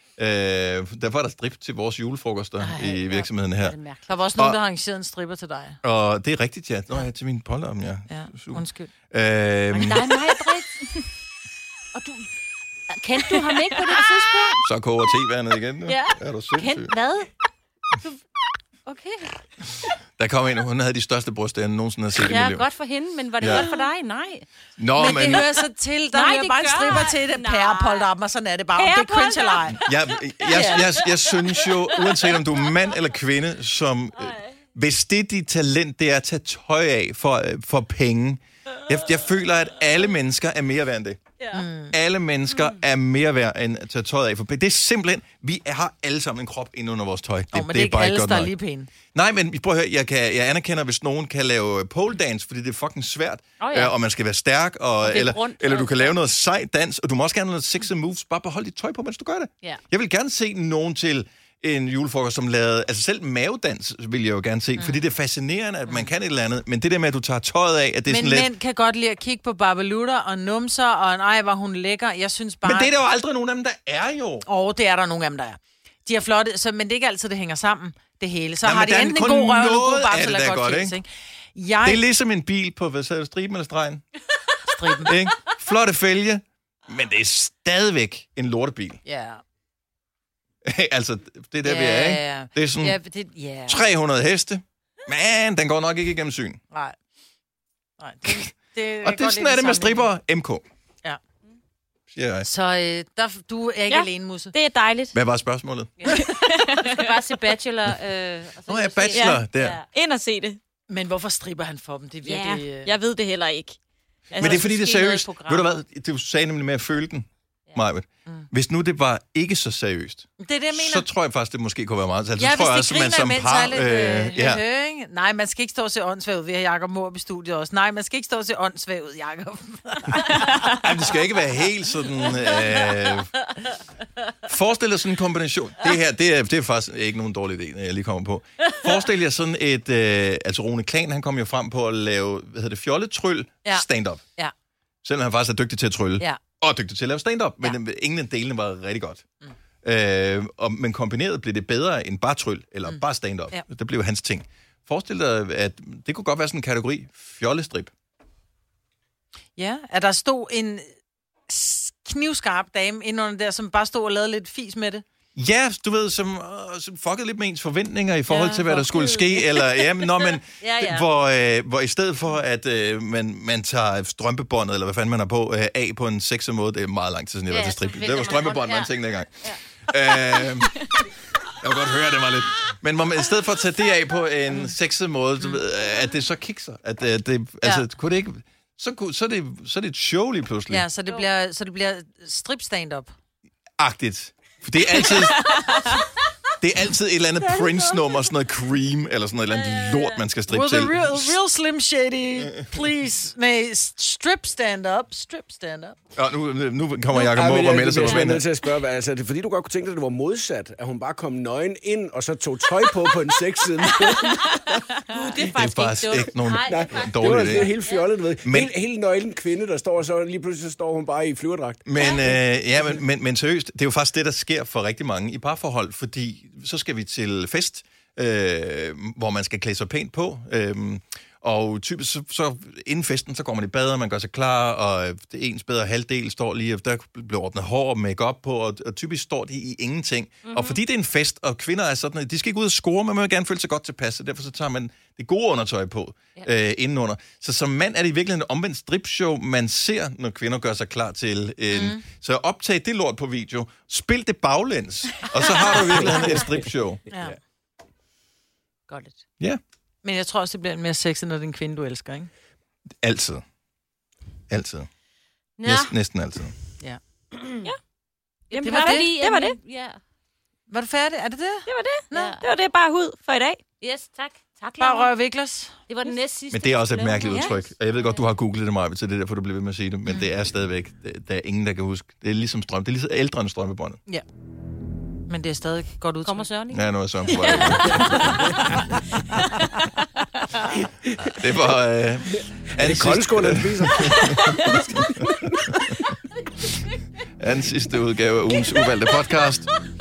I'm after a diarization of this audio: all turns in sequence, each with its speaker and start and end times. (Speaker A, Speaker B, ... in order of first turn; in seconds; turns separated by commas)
Speaker A: 0.2-3.8, Speaker B: 2.6-4.3, Speaker C: 4.1-5.8, Speaker A: 5.8-10.2, Speaker C: 8.1-8.9, Speaker B: 9.7-11.0, Speaker B: 11.9-12.3, Speaker B: 12.9-14.6, Speaker A: 14.6-16.9, Speaker B: 15.9-17.3, Speaker B: 18.9-19.3, Speaker A: 20.2-22.7, Speaker B: 22.2-24.4, Speaker A: 23.4-23.7, Speaker A: 24.8-25.5, Speaker C: 24.9-29.8, Speaker B: 26.1-28.1, Speaker B: 28.8-29.9, Speaker A: 29.7-41.2, Speaker B: 30.4-32.5, Speaker C: 30.5-30.9, Speaker C: 41.5-41.9, Speaker A: 41.9-48.5, Speaker C: 47.5-48.9, Speaker A: 49.1-68.5, Speaker B: 53.6-53.9, Speaker B: 55.0-56.1, Speaker C: 68.1-73.0, Speaker A: 72.6-74.5, Speaker C: 74.4-82.0, Speaker A: 78.6-81.0, Speaker A: 81.8-84.0, Speaker C: 84.6-85.1, Speaker A: 85.0-89.0, Speaker C: 89.0-89.4, Speaker A: 90.6-93.0, Speaker C: 91.6-93.9, Speaker A: 93.7-96.6, Speaker C: 96.7-97.0, Speaker C: 98.0-100.1, Speaker A: 99.0-100.6, Speaker A: 102.1-102.5, Speaker C: 102.4-104.5, Speaker D: 103.9-105.2, Speaker A: 105.1-106.2, Speaker D: 106.1-107.1, Speaker B: 106.1-109.8, Speaker A: 108.7-109.8, Speaker D: 109.1-110.6, Speaker C: 110.9-112.9, Speaker D: 112.3-113.8, Speaker B: 114.3-115.8, Speaker A: 114.4-124.6, Speaker C: 120.4-121.1, Speaker C: 122.4-130.7, Speaker A: 130.6-133.3, Speaker A: 134.4-144.2, Speaker C: 143.6-144.5, Speaker A: 145.0-149.2, Speaker A: 149.8-157.9, Speaker C: 159.6-160.9, Speaker C: 161.5-165.0, Speaker A: 165.3-190.9, Speaker B: 168.3-171.0, Speaker B: 177.5-178.9, Speaker C: 190.7-193.1, Speaker A: 193.8-195.8, Speaker A: 196.6-201.3, Speaker C: 197.6-197.8, Speaker B: 199.6-200.2, Speaker C: 200.5-206.0, Speaker A: 206.1-208.4, Speaker E: 207.1-215.0, Speaker B: 214.0-218.1, Speaker A: 215.3-217.7, Speaker E: 216.6-221.8, Speaker A: 218.4-218.7, Speaker A: 221.8-257.0, Speaker B: 240.4-240.8, Speaker C: 251.7-252.0, Speaker E: 256.1-256.4, Speaker C: 257.1-257.4, Speaker B: 258.9-259.1, Speaker C: 260.0-262.3, Speaker A: 263.0-263.4, Speaker A: 264.5-264.9, Speaker B: 265.6-265.9, Speaker A: 265.6-266.5, Speaker D: 268.5-269.6, Speaker B: 268.5-270.0, Speaker C: 268.6-269.1, Speaker C: 270.7-272.4, Speaker D: 271.7-273.6, Speaker B: 272.1-272.4, Speaker B: 273.8-275.1, Speaker C: 274.8-275.8, Speaker B: 275.9-278.2, Speaker A: 276.5-284.0, Speaker C: 285.3-286.5, Speaker B: 286.2-288.3, Speaker A: 286.7-288.6, Speaker A: 291.2-296.1, Speaker E: 292.3-296.1, Speaker D: 294.4-294.8, Speaker A: 297.4-299.7